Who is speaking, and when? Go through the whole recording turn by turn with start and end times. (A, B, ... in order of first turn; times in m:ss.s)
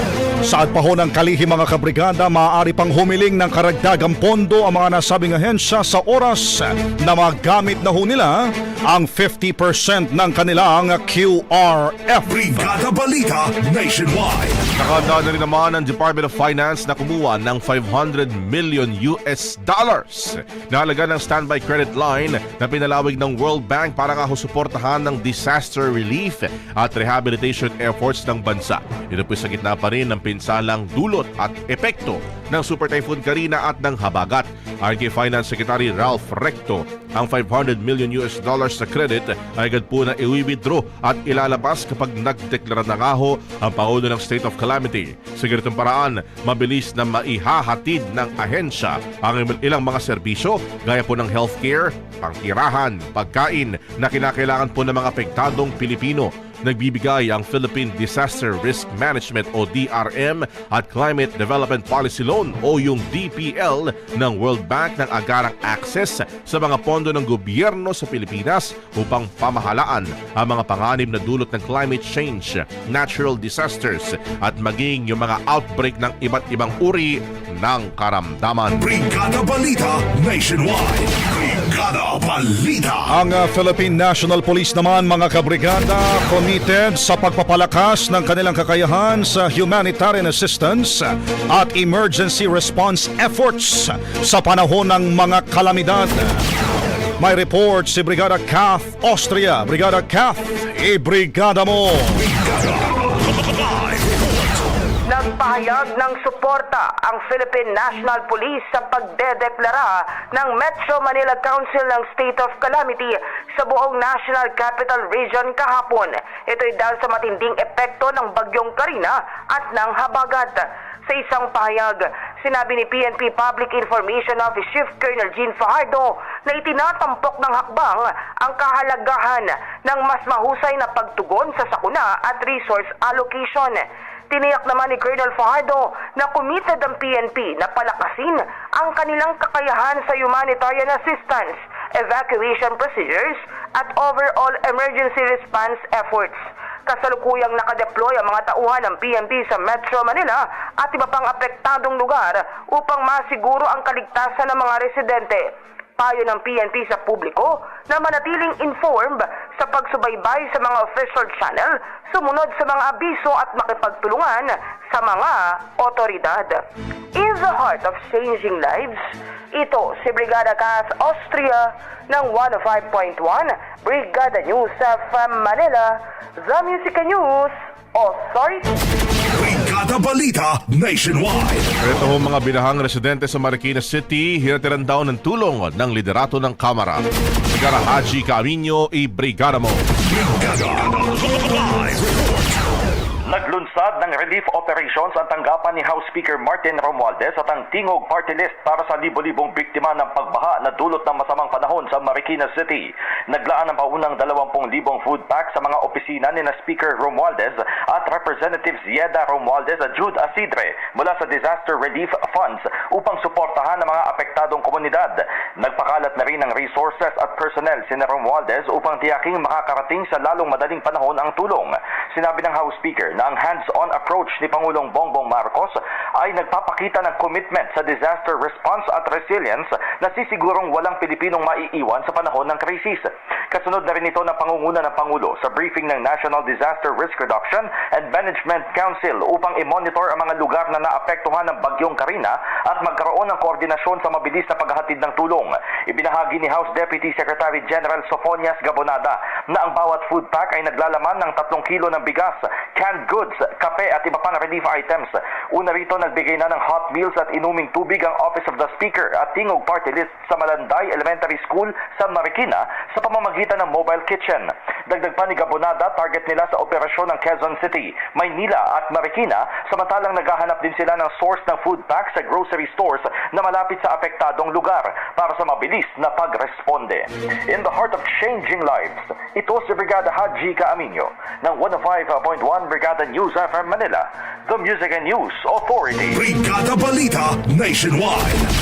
0:00.4-0:12.7 A
0:12.5-0:14.6 B
0:14.8-1:18.8 C
1:18.8-1:23.1 B
1:23.1-1:36.4 A
1:37.2-1:42.2 A
1:42.2-1:44.3 B
1:45.1-2:46.6 D
2:47.1-2:58.8 D
2:59.3-3:01.7 B
3:01.8-3:09.9 C
3:10.1-3:12.3 B
3:13.3-4:46.2 E
4:46.1-4:48.2 B